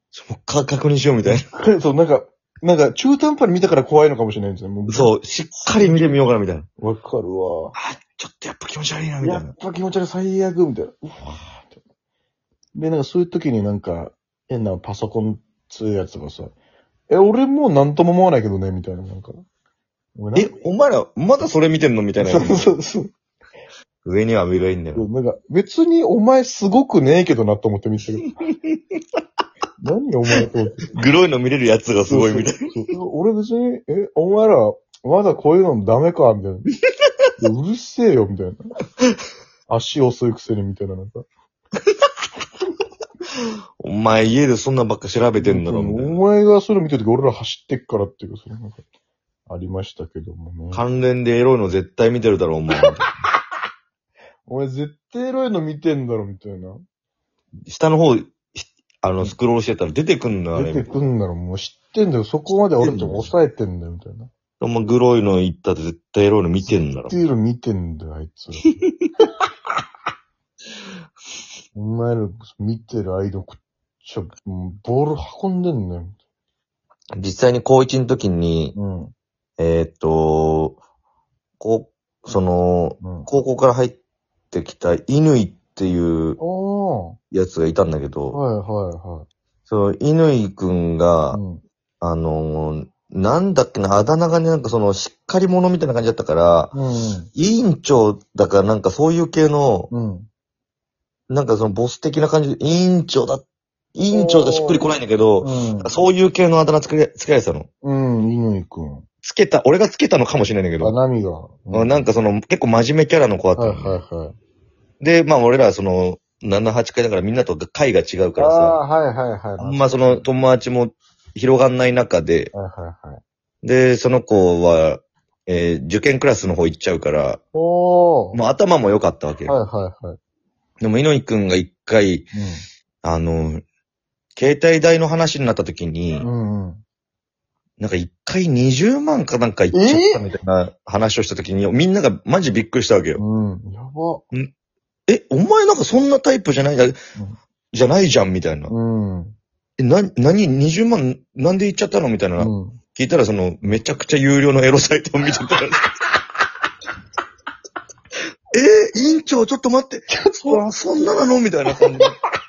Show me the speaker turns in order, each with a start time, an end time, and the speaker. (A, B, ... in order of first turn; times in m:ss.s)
0:00.1-0:01.4 A
0:01.2-0:05.1 B
0:04.9-0:06.7 A
0:05.8-0:06.1 B
0:06.8-0:07.7 B
0:07.7-0:09.5 A
0:09.2-0:11.7 B
0:12.7-0:16.5 B
0:17.1-0:19.4 B
0:20.2-0:20.5 B
0:20.3-0:22.7 A
0:22.2-0:23.1 B
0:24.0-0:25.1 A
0:24.9-0:28.3 B
0:29.8-0:30.9 B
0:30.9-0:32.7 A
0:32.0-0:36.7 B
0:37.4-0:38.6 B
0:39.7-0:41.2 B
0:43.8-0:46.2 A
0:45.4-0:48.8 B
0:49.5-0:50.8 B
0:50.7-0:53.1 A
0:54.5-0:56.8 B
0:57.7-1:00.9 A
1:00.5-1:04.3 B
1:02.8-1:03.3 A
1:04.6-1:07.2 A
1:06.6-1:08.7 B
1:11.7-1:16.2 B
1:17.2-1:18.8 A
1:18.7-1:19.1 B
1:19.6-1:20.8 A
1:21.6-1:24.0 A
1:23.0-1:23.3 B
1:24.5-1:26.4 A
1:26.4-1:27.2 B
1:27.3-1:28.4 A
1:28.3-1:29.3 B
1:29.6-1:31.4 A
1:31.3-1:31.6 B
1:32.0-1:36.8 A
1:36.7-1:37.3 B
1:37.3-1:39.9 A
1:39.9-1:40.3 B
1:41.3-1:43.4 A
1:43.9-1:47.7 A
1:44.1-1:44.8 B
1:45.4-1:45.9 B
1:47.8-1:49.0 B
1:49.2-1:51.0 A
1:50.8-1:52.1 B
1:51.7-1:54.0 A
1:53.6-1:54.4 B
1:55.0-1:58.8 A
1:58.4-2:00.2 B
1:59.6-2:02.5 A
2:02.5-2:03.2 B
2:03.6-2:07.4 A
2:07.5-2:08.4 B
2:08.3-2:09.6 A
2:09.4-2:10.2 B
2:10.8-2:12.3 A
2:12.3-2:12.6 B
2:13.0-2:13.6 A
2:14.4-2:16.3 A
2:16.2-2:16.8 B
2:17.8-2:23.2 A
2:19.7-2:20.2 B
2:23.2-2:24.2 B
2:25.1-2:27.0 A
2:27.7-2:28.7 A
2:28.7-2:29.3 B
2:29.8-2:35.9 A
2:32.4-2:32.8 B
2:38.5-2:42.2 A
2:40.1-2:41.1 B